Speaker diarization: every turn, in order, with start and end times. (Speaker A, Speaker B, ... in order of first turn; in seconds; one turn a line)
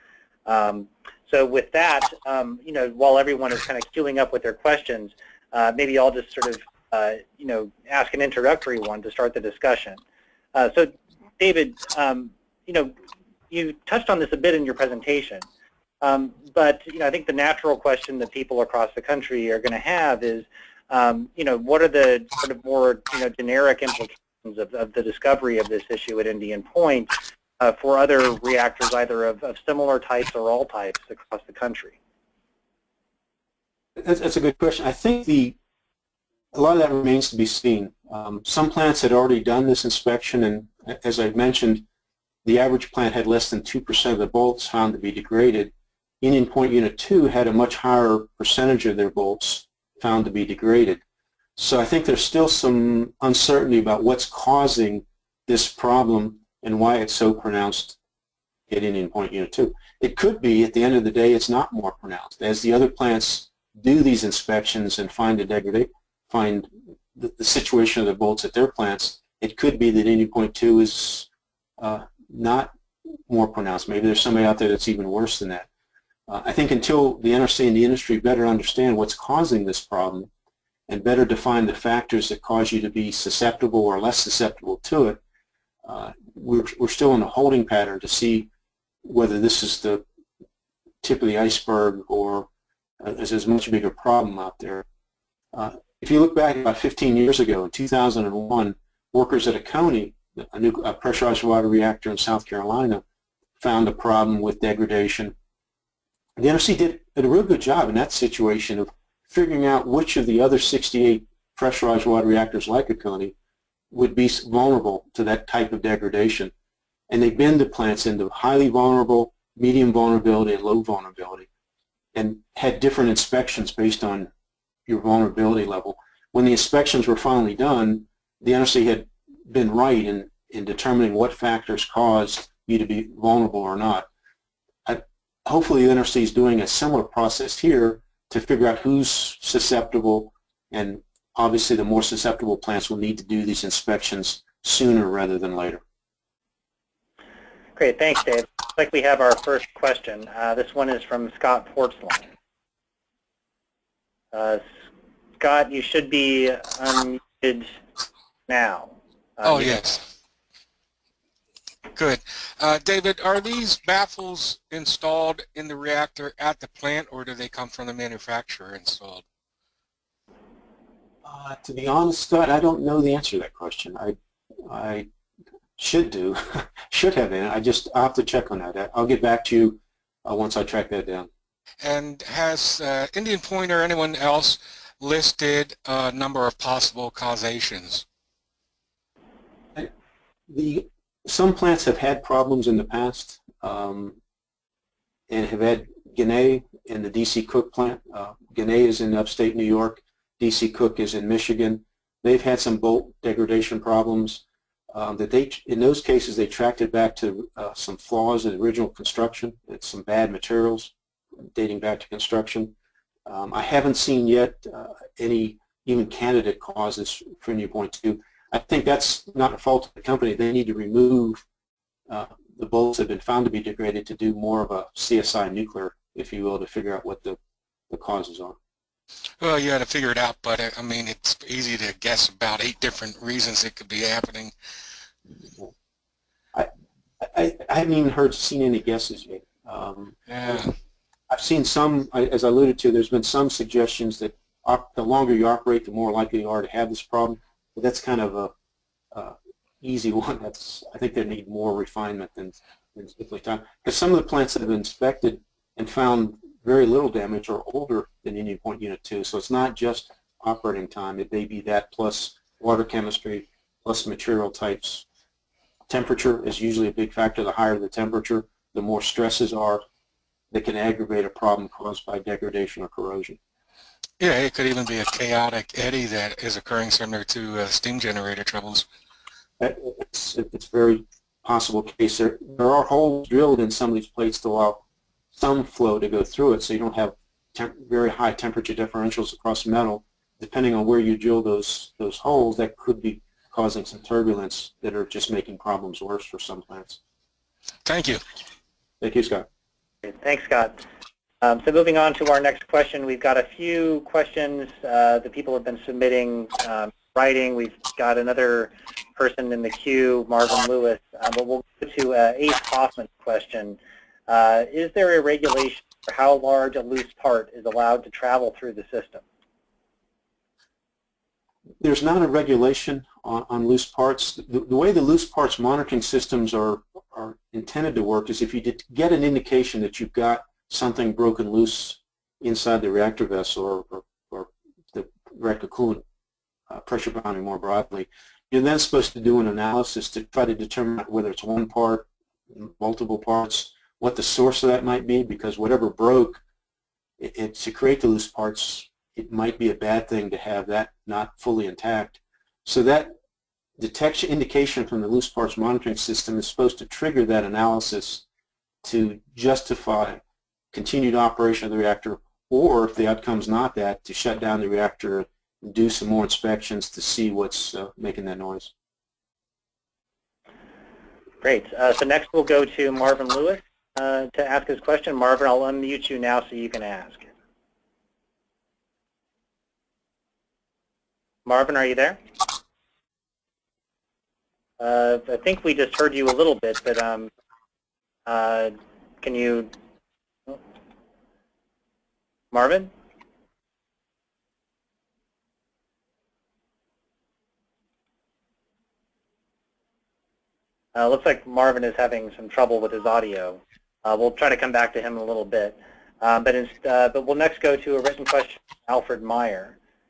Speaker A: 0.5-10.0
Speaker A: 10.5-12.9
Speaker A: 13.5-15.5
Speaker A: 16.0-32.0
Speaker B: 34.0-35.6
Speaker B: 36.5-41.9
Speaker B: 42.4-51.0
Speaker B: 51.6-58.0
Speaker B: 58.7-71.3
Speaker B: 71.8-72.8
Speaker B: 73.3-75.7
Speaker B: 76.3-80.3
Speaker B: 80.9-85.2
Speaker B: 85.8-88.5
Speaker B: 89.0-90.0
Speaker B: 91.0-92.5
Speaker B: 93.0-94.8
Speaker B: 95.5-103.0
Speaker B: 103.6-105.3
Speaker B: 106.4-113.3
Speaker B: 113.9-116.5
Speaker B: 117.1-121.5
Speaker B: 122.2-124.3
Speaker B: 124.9-134.1
Speaker B: 134.9-145.8
Speaker A: 147.8-152.3
Speaker A: 154.3-154.6
Speaker A: 155.4-157.8
Speaker A: 158.5-160.0
Speaker C: 159.4-160.0
Speaker C: 161.9-169.2
Speaker B: 171.2-175.1
Speaker B: 175.8-181.3
Speaker C: 181.8-188.1
Speaker B: 190.5-194.2
Speaker B: 195.3-210.9
Speaker B: 211.6-212.7
Speaker B: 213.3-221.4
Speaker B: 222.1-227.4
Speaker B: 227.9-228.6
Speaker C: 229.4-234.5
Speaker B: 236.5-240.7
Speaker C: 240.3-240.7
Speaker B: 241.3-248.5
Speaker B: 249.1-265.1
Speaker B: 265.9-269.8
Speaker B: 270.5-273.4
Speaker C: 274.2-278.9
Speaker B: 279.6-284.8
Speaker B: 285.4-297.0
Speaker C: 297.9-298.2
Speaker B: 299.0-299.4
Speaker A: 300.0-300.8
Speaker A: 301.4-319.2
Speaker B: 321.8-336.0
Speaker B: 336.7-346.4
Speaker B: 347.2-353.1
Speaker B: 353.8-358.2
Speaker B: 358.8-360.2
Speaker B: 360.7-368.7
Speaker A: 371.4-377.3
Speaker A: 381.5-382.2
Speaker A: 384.8-387.3
Speaker A: 388.3-389.7
Speaker A: 392.5-392.9
Speaker A: 400.9-409.8